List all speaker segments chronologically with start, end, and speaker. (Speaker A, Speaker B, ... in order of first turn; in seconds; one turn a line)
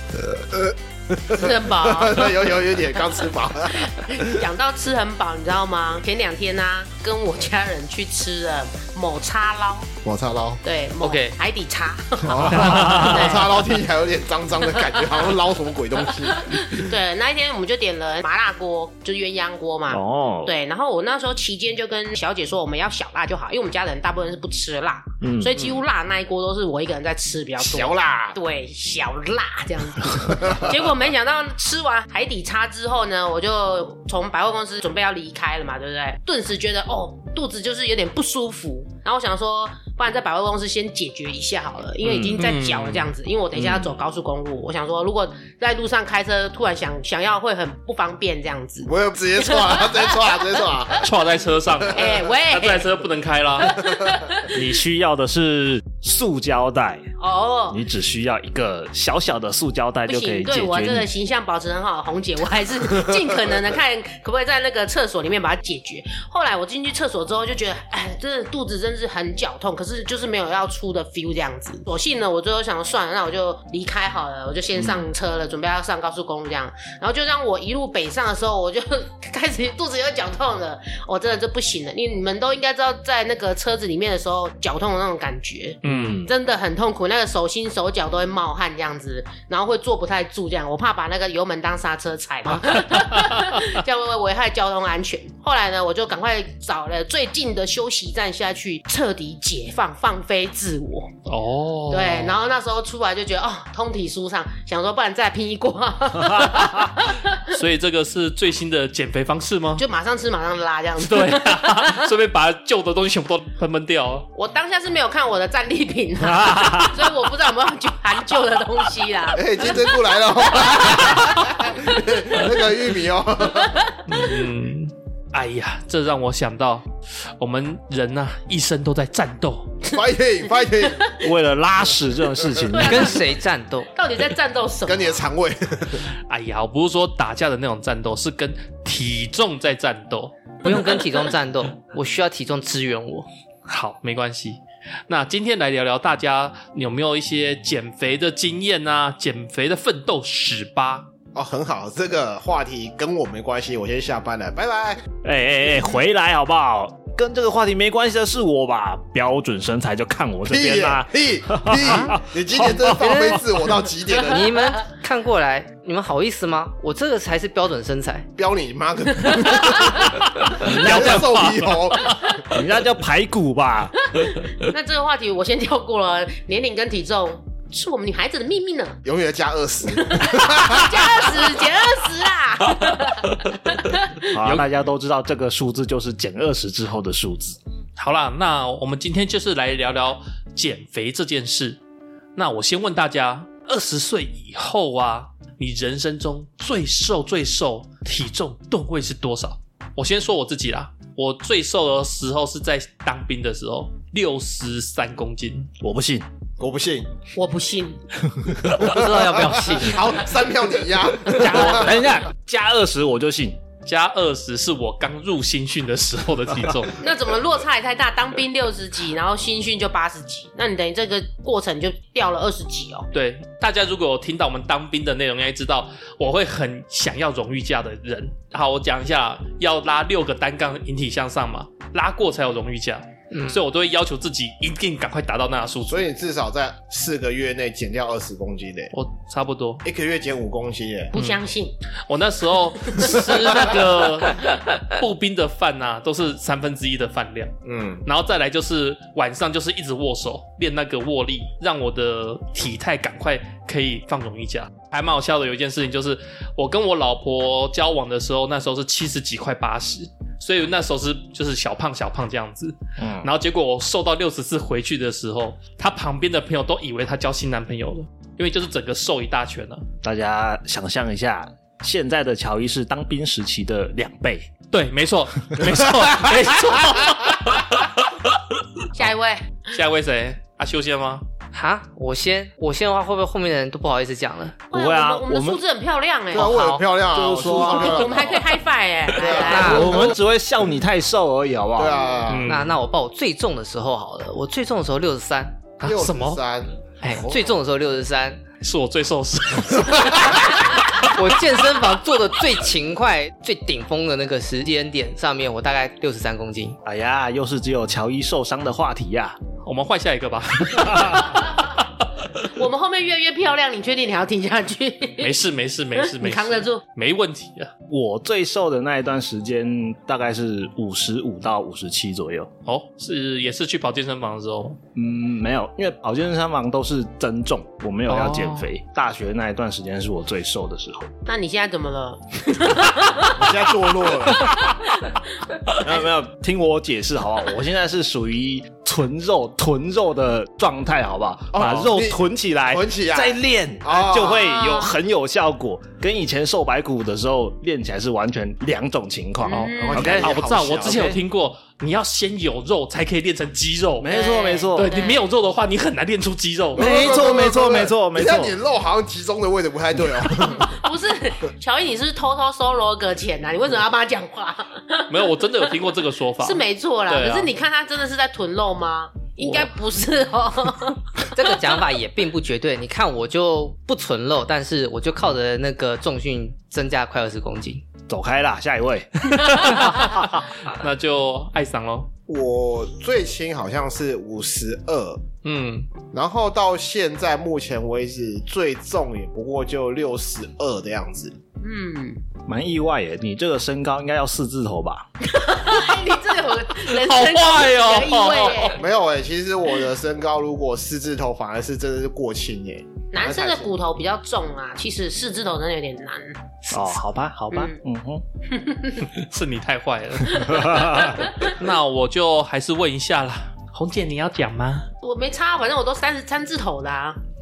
Speaker A: 0.2-4.4
Speaker B: 1.3-2.4
Speaker B: 3.8-9.9
Speaker A: 10.0-10.6
Speaker B: 10.6-13.6
Speaker C: 11.0-11.3
Speaker A: 12.2-16.9
Speaker C: 12.6-13.2
Speaker B: 14.9-15.2
Speaker B: 16.2-48.9
Speaker D: 19.9-20.5
Speaker D: 25.2-25.5
Speaker A: 27.6-28.4
Speaker A: 30.4-30.7
Speaker C: 42.0-43.1
Speaker A: 43.5-43.9
Speaker A: 48.9-51.0
Speaker B: 49.4-51.0
Speaker C: 51.0-53.9
Speaker B: 51.9-52.9
Speaker B: 53.6-54.6
Speaker D: 54.5-57.0
Speaker B: 57.2-57.8
Speaker D: 57.7-61.1
Speaker B: 60.1-101.1
Speaker C: 85.8-86.3
Speaker D: 85.8-86.3
Speaker C: 101.2-102.4
Speaker B: 101.9-107.5
Speaker C: 107.5-109.8
Speaker B: 109.8-112.1
Speaker C: 111.0-114.3
Speaker B: 114.3-119.9
Speaker D: 116.2-117.0
Speaker A: 119.3-123.8
Speaker B: 120.5-121.7
Speaker C: 124.1-126.9
Speaker C: 127.4-129.8
Speaker A: 129.8-131.2
Speaker D: 131.2-133.2
Speaker B: 132.7-133.3
Speaker E: 132.8-133.9
Speaker B: 133.9-135.2
Speaker A: 134.8-136.1
Speaker C: 136.3-140.3
Speaker E: 140.6-143.3
Speaker C: 143.7-151.1
Speaker A: 151.3-155.0
Speaker D: 155.2-163.6
Speaker A: 160.5-164.5
Speaker E: 162.9-163.4
Speaker E: 164.1-168.3
Speaker A: 168.4-172.4
Speaker D: 170.6-171.9
Speaker D: 172.5-174.7
Speaker B: 174.6-179.0
Speaker A: 179.0-181.2
Speaker B: 180.2-184.1
Speaker D: 184.3-187.6
Speaker C: 184.4-184.7
Speaker C: 188.0-191.8
Speaker C: 192.3-205.7
Speaker D: 205.8-206.3
Speaker A: 206.6-207.1
Speaker B: 207.3-208.0
Speaker D: 208.4-209.4
Speaker A: 208.7-211.9
Speaker E: 208.8-210.2
Speaker D: 211.2-213.6
Speaker C: 213.8-217.0
Speaker B: 217.0-223.1
Speaker C: 223.1-236.1
Speaker E: 233.3-233.6
Speaker A: 235.8-238.9
Speaker C: 238.9-239.8
Speaker A: 239.8-241.1
Speaker B: 241.1-241.7
Speaker C: 241.1-241.4
Speaker C: 242.1-247.5
Speaker A: 247.6-248.0
Speaker C: 248.0-269.8
Speaker D: 263.0-263.3
Speaker D: 270.0-274.5
Speaker C: 274.7-278.4
Speaker B: 278.9-279.4
Speaker C: 279.7-281.2
Speaker E: 281.5-284.6
Speaker B: 284.7-286.6
Speaker D: 284.7-285.6
Speaker A: 286.3-288.4
Speaker E: 286.3-286.8
Speaker D: 287.1-288.4
Speaker B: 287.5-290.1
Speaker A: 289.1-289.9
Speaker E: 289.4-290.0
Speaker D: 289.5-292.2
Speaker A: 291.8-292.6
Speaker C: 292.3-292.7
Speaker E: 292.4-296.4
Speaker C: 295.8-296.3
Speaker A: 295.8-297.5
Speaker E: 297.0-298.4
Speaker C: 298.6-301.0
Speaker A: 299.9-300.4
Speaker E: 301.0-306.8
Speaker D: 306.8-309.4
Speaker C: 309.6-311.7
Speaker D: 310.7-311.2
Speaker B: 312.4-315.4
Speaker C: 315.2-317.7
Speaker B: 316.0-316.8
Speaker D: 317.9-322.5
Speaker C: 322.6-324.8
Speaker D: 324.9-331.1
Speaker C: 328.1-328.7
Speaker B: 331.2-333.5
Speaker A: 333.3-334.6
Speaker B: 334.4-335.1
Speaker D: 335.8-351.2
Speaker A: 341.5-344.4
Speaker B: 344.3-344.9
Speaker B: 349.4-350.2
Speaker C: 349.5-354.1
Speaker A: 349.9-351.1
Speaker D: 354.0-355.0
Speaker B: 354.1-355.2
Speaker C: 354.7-357.0
Speaker A: 356.8-360.7
Speaker D: 356.8-358.6
Speaker B: 356.9-357.7
Speaker B: 360.6-365.3
Speaker C: 365.1-367.5
Speaker B: 366.4-371.3
Speaker E: 371.2-377.8
Speaker D: 378.1-380.0
Speaker C: 379.5-382.1
Speaker A: 382.3-385.2
Speaker C: 385.4-385.9
Speaker A: 386.1-391.3
Speaker B: 391.6-392.2
Speaker D: 392.5-395.1
Speaker B: 395.3-398.8
Speaker C: 396.6-398.8
Speaker A: 398.6-403.7
Speaker B: 403.1-406.4
Speaker D: 406.7-408.2
Speaker B: 408.5-409.1
Speaker C: 409.0-414.9
Speaker D: 410.4-411.1
Speaker B: 415.0-417.2